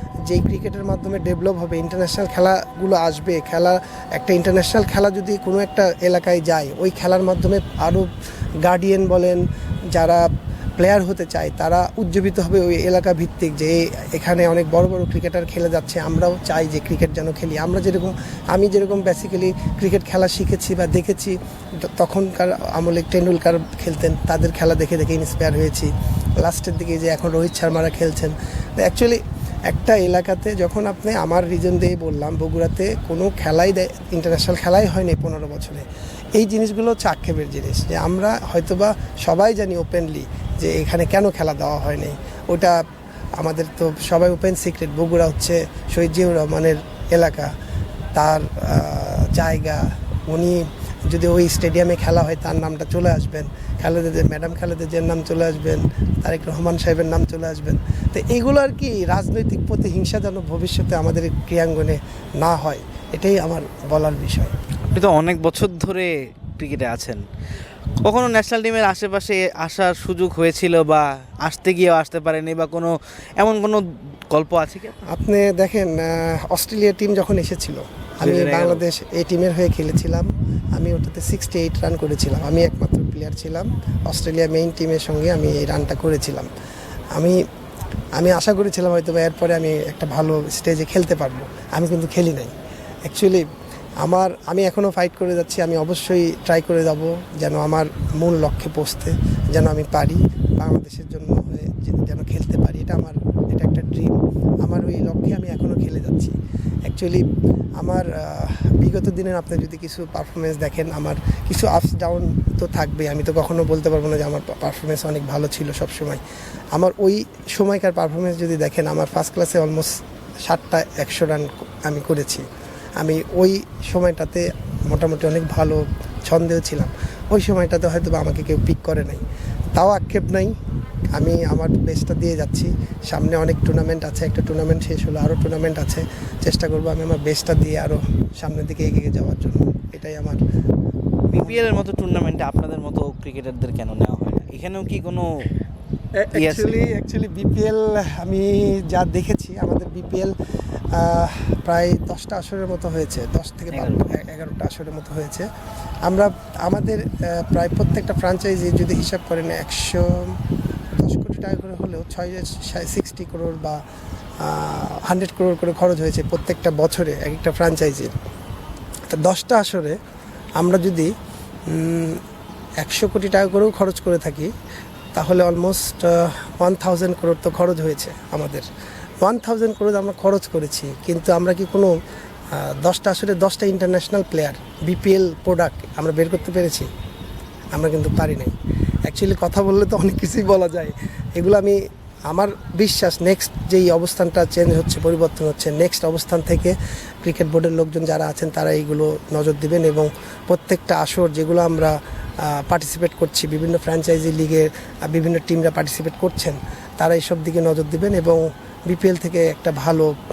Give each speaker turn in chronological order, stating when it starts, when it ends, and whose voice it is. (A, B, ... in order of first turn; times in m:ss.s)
0:00.2-0:08.1 A
0:08.6-0:42.8 A
0:43.4-0:47.5 A
0:48.2-1:04.5 A
1:04.9-1:07.2 B
1:08.0-1:15.1 B
1:15.0-1:26.5 A
1:18.2-1:18.8 B
1:27.1-1:27.4 A
1:28.2-1:32.5 A
1:33.1-1:33.5 A
1:34.0-1:47.3 A
1:47.8-1:56.2 A
1:56.7-2:02.5 A
2:03.0-2:09.2 A
2:09.8-2:10.6 A
2:11.1-2:20.4 A
2:21.3-2:25.5 B
2:26.2-2:30.4 A
2:26.3-2:26.8 B
2:30.9-2:35.5 A
2:33.8-2:34.0 B
2:36.1-2:40.4 A
2:41.0-2:43.8 A
2:44.4-2:48.1 A
2:49.1-2:50.0 A
2:50.6-2:51.1 A
2:51.7-2:52.2 A
2:52.8-2:54.5 A
2:55.1-2:58.7 A
2:59.2-3:02.0 A
3:02.5-3:06.9 A
3:07.7-3:08.6 A
3:09.1-3:30.2 A